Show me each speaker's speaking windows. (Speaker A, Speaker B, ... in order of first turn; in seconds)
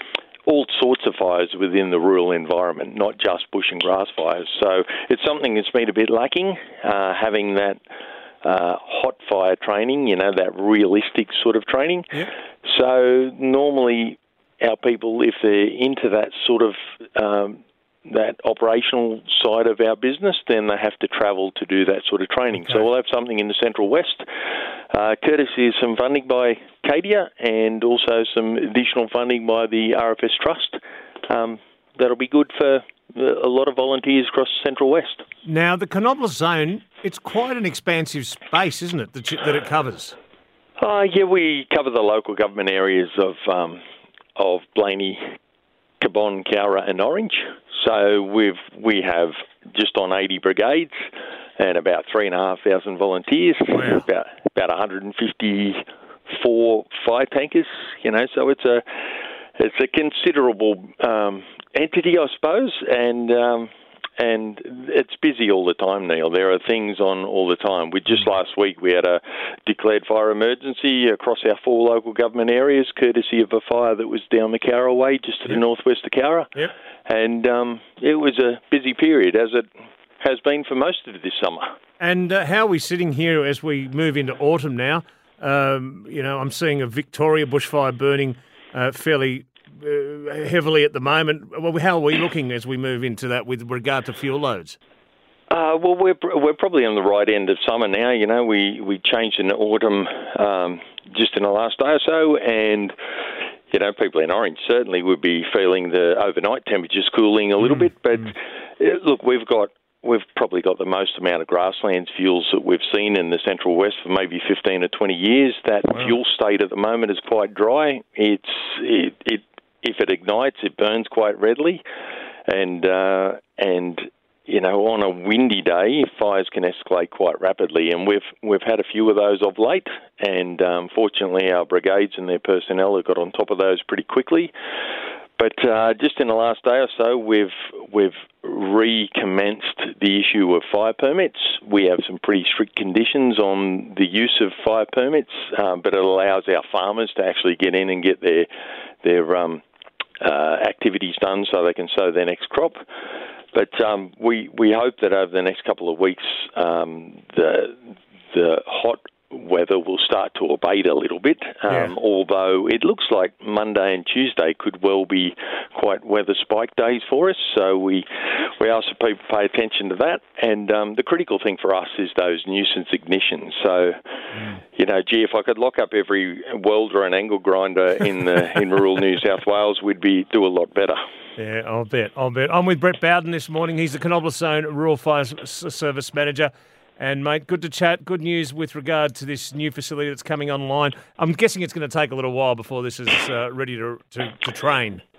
Speaker A: 0.4-7.8, 8.4-24.2, 24.9-35.2, 40.8-43.8, 44.4-45.2, 46.0-51.1, 51.6-59.0, 59.5-79.7, 80.2-81.7, 95.5-102.9, 103.7-121.8, 122.5-134.5, 135.4-148.5, 149.0-149.6, 150.2-152.8, 153.5-157.8, 158.3-174.0, 174.7-181.0
Speaker B: 35.4-40.2, 53.7-54.0, 82.0-94.8, 181.4-195.0